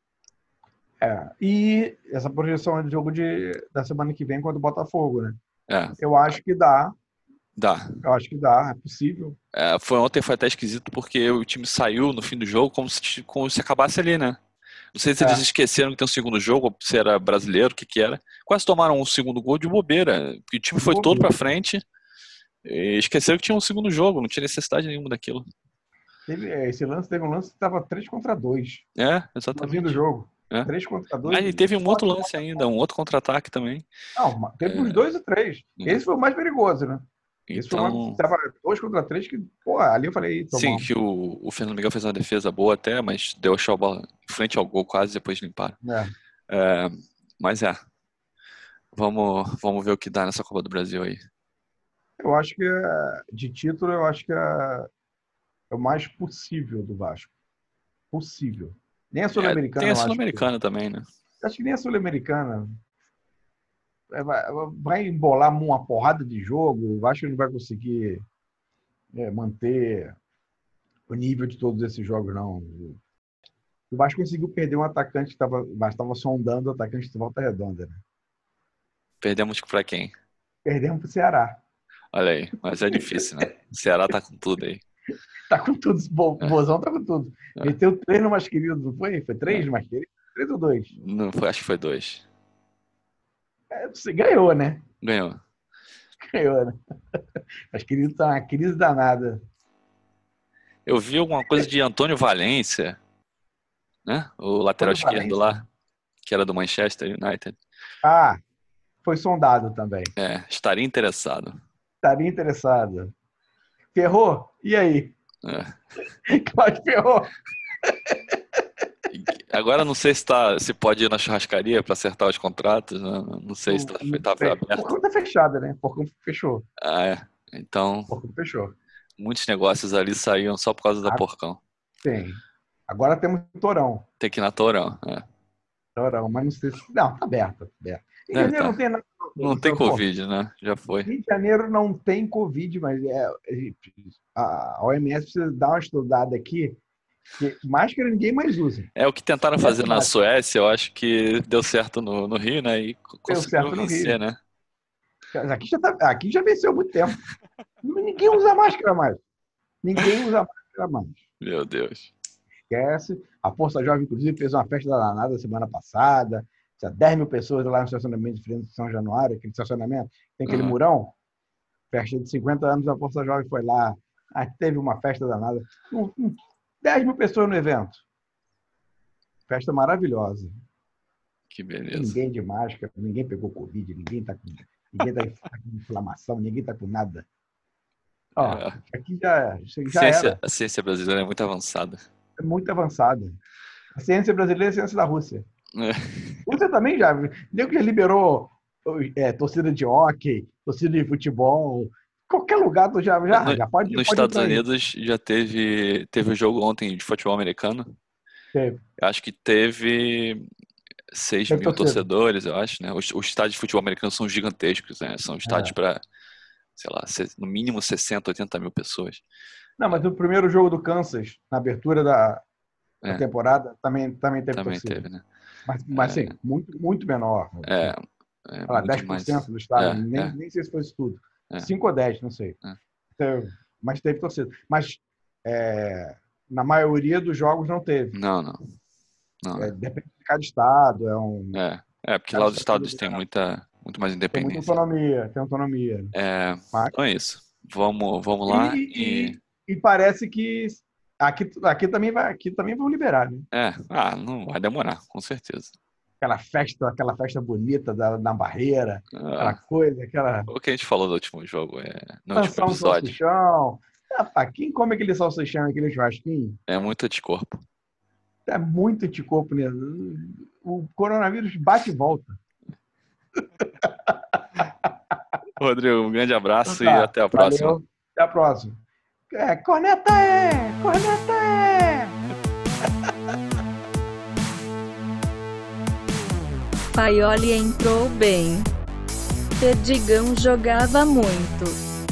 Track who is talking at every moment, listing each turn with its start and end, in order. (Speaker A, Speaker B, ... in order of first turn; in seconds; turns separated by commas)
Speaker A: 1.0-5.4, Speaker B: 5.7-6.0, Speaker A: 6.0-6.9, Speaker B: 7.5-8.0, Speaker A: 8.0-9.4, Speaker B: 9.5-14.4, Speaker B: 14.9-21.8, Speaker A: 15.2-15.4, Speaker A: 20.8-21.3, Speaker B: 22.6-25.4, Speaker A: 26.3-28.8, Speaker B: 28.9-30.7, Speaker A: 29.5-32.6, Speaker B: 31.2-33.9, Speaker A: 34.1-40.9, Speaker B: 34.6-35.0, Speaker B: 37.5-38.2, Speaker B: 40.5-45.8, Speaker A: 45.8-46.1, Speaker B: 46.5-47.8, Speaker B: 48.9-51.2, Speaker A: 52.2-54.9, Speaker A: 55.7-57.3, Speaker A: 58.1-60.5, Speaker B: 59.3-61.1, Speaker A: 61.4-62.8, Speaker A: 64.1-68.2, Speaker A: 69.1-70.2, Speaker A: 71.1-73.0, Speaker A: 73.9-78.0, Speaker B: 79.2-80.1, Speaker A: 80.6-81.6, Speaker B: 82.1-84.8, Speaker A: 82.9-83.2, Speaker A: 85.5-90.9, Speaker B: 90.9-92.2, Speaker A: 93.7-94.8, Speaker B: 95.0-95.4, Speaker A: 96.2-97.2, Speaker A: 97.7-99.4, Speaker B: 100.8-103.0, Speaker B: 104.0-105.6, Speaker A: 104.8-105.6, Speaker B: 106.2-107.6, Speaker A: 108.0-108.4, Speaker A: 109.0-110.1, Speaker B: 110.2-111.6, Speaker A: 112.0-113.1, Speaker A: 113.9-115.1, Speaker B: 115.4-115.8, Speaker A: 116.2-118.2, Speaker B: 119.1-124.9, Speaker A: 123.7-126.6, Speaker B: 126.8-128.1, Speaker A: 128.1-128.7, Speaker B: 129.2-131.6, Speaker A: 132.0-134.1, Speaker B: 134.2-135.2, Speaker A: 135.9-140.0, Speaker B: 138.3-138.8, Speaker B: 139.4-141.1, Speaker A: 141.0-146.8, Speaker A: 147.3-148.9, Speaker B: 148.9-154.4, Speaker A: 149.6-150.1, Speaker A: 153.3-154.2, Speaker A: 155.3-157.2, Speaker A: 157.8-159.2, Speaker A: 159.8-161.2, Speaker B: 161.4-162.1, Speaker A: 162.7-171.1, Speaker B: 170.4-170.8, Speaker A: 171.9-178.0, Speaker A: 179.5-180.5, Speaker B: 181.5-182.2, Speaker A: 181.9-187.2, Speaker A: 188.4-190.4, Speaker B: 188.4-188.8, Speaker B: 189.9-192.0, Speaker A: 192.4-193.4, Speaker A: 193.9-195.4, Speaker B: 195.7-196.6, Speaker A: 196.4-204.6, Speaker B: 203.3-207.9, Speaker A: 208.5-208.8, Speaker B: 209.0-210.4, Speaker B: 211.1-216.0, Speaker A: 211.5-212.0, Speaker A: 215.4-215.7, Speaker B: 216.8-219.2, Speaker A: 219.8-222.4, Speaker A: 223.1-225.0, Speaker B: 224.5-225.2, Speaker A: 225.7-227.9, Speaker B: 225.9-226.3, Speaker B: 227.7-230.3, Speaker A: 228.7-232.6, Speaker A: 233.2-238.2, Speaker B: 238.1-238.8, Speaker B: 239.4-239.7, Speaker A: 239.6-241.6, Speaker B: 241.5-244.8, Speaker A: 242.3-243.2, Speaker A: 244.3-246.1, Speaker B: 246.1-249.4, Speaker A: 248.4-253.4, Speaker B: 253.5-255.7, Speaker A: 256.2-260.5, Speaker B: 259.1-259.6, Speaker B: 260.5-263.2, Speaker A: 262.3-266.6, Speaker B: 266.7-267.6, Speaker A: 268.4-272.4, Speaker A: 273.8-274.9, Speaker B: 275.6-277.8, Speaker A: 276.6-278.8, Speaker A: 279.3-282.1, Speaker C: 286.9-288.7, Speaker C: 289.6-291.8